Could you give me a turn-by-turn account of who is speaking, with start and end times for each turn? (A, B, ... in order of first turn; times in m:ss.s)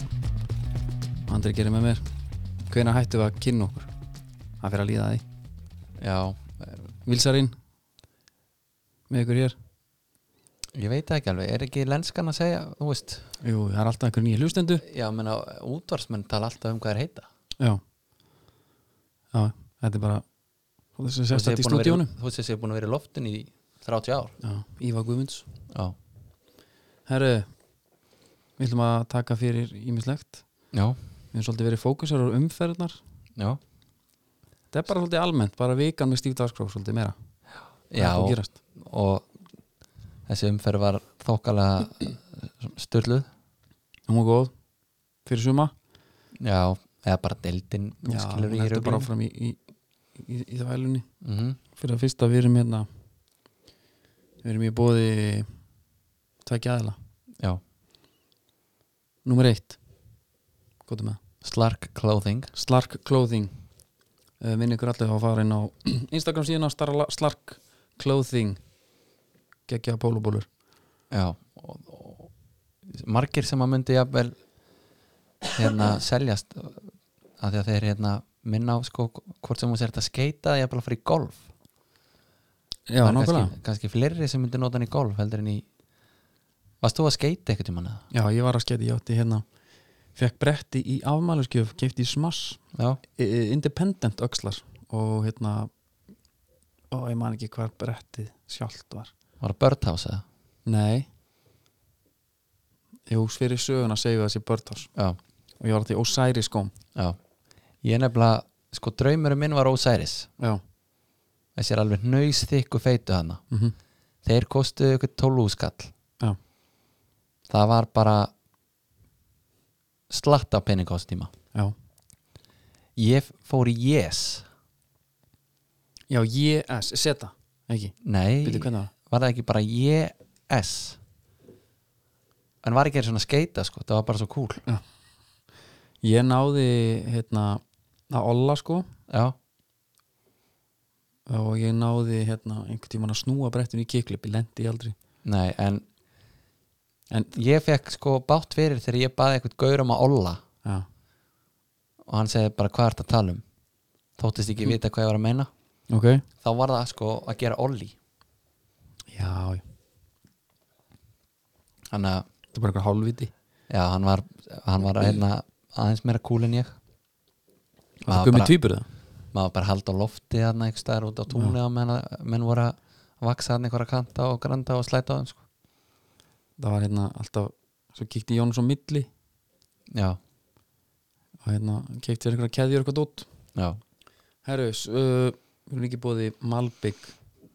0:01.3-0:02.0 A
0:02.7-0:03.9 A
0:04.6-0:05.2 A
0:06.0-0:06.8 B
0:07.0-0:07.6 A
0:09.1-0:09.6 A
0:10.7-0:13.3 B
0:13.4-0:14.8 A
0:14.8-0:17.3 B
0:19.3-0:20.2 A
0:21.0-0:22.1 A
0:21.3-0:24.3 B
0:24.4-0:25.4 A
0:25.7-0:26.0 B
0:27.1-0:27.5 A
0:28.6-0:30.4 A
0:30.7-0:31.0 B
0:31.3-0:33.0 A
0:34.7-0:37.1 A
0:37.9-0:39.3 B
0:38.0-0:38.6 A
0:40.3-0:43.3 B
0:44.1-0:44.5 A
0:45.2-0:45.7 A
0:46.4-0:49.1 B
0:48.0-0:49.6 A
0:50.2-0:51.1 A
0:51.2-0:51.6 B
0:51.7-0:52.9 A
0:54.4-0:55.5 A
0:56.4-0:57.0 A
0:59.2-0:59.8 A
1:00.8-1:01.2 A
1:01.4-1:02.5 B
1:02.5-1:03.6 A
1:04.4-1:08.6 A
1:09.7-1:10.5 A
1:11.1-1:12.3 B
1:12.9-1:14.4 B
1:15.6-1:21.4 B
1:22.9-1:23.5 A
1:23.0-1:25.6 B
1:26.8-1:28.0 B
1:28.1-1:29.4 A
1:30.1-1:32.6 A
1:32.7-1:33.0 B
1:33.2-1:35.7 A
1:36.9-1:39.1 A
1:39.4-1:40.2 B
1:40.6-1:41.1 A
1:43.1-1:44.9 A
1:45.6-1:46.7 A
1:47.8-1:50.3 B
1:51.6-1:53.4 B
1:54.2-1:55.9 B
1:57.5-1:58.3 B
2:00.1-2:01.3 B
2:03.0-2:04.4 B
2:06.1-2:08.9 A
2:08.0-2:11.0 B
2:12.6-2:14.6 B
2:16.0-2:18.9 A
2:19.1-2:19.4 B
2:21.3-2:24.9 A
2:25.2-2:25.8 B
2:27.1-2:27.4 A
2:27.3-2:30.4 B
2:32.0-2:33.4 B
2:34.2-2:35.5 B
2:35.9-2:36.2 A
2:36.4-2:37.9 B
2:39.1-2:39.6 A
2:41.9-2:42.2 B
2:42.5-2:43.3 A
2:43.7-2:46.8 B
2:48.0-2:48.9 A
2:48.1-2:48.5 B
2:49.3-2:55.4 B
2:56.6-2:59.1 A
2:59.9-3:00.2 B
3:01.4-3:03.3 A
3:04.4-3:07.1 A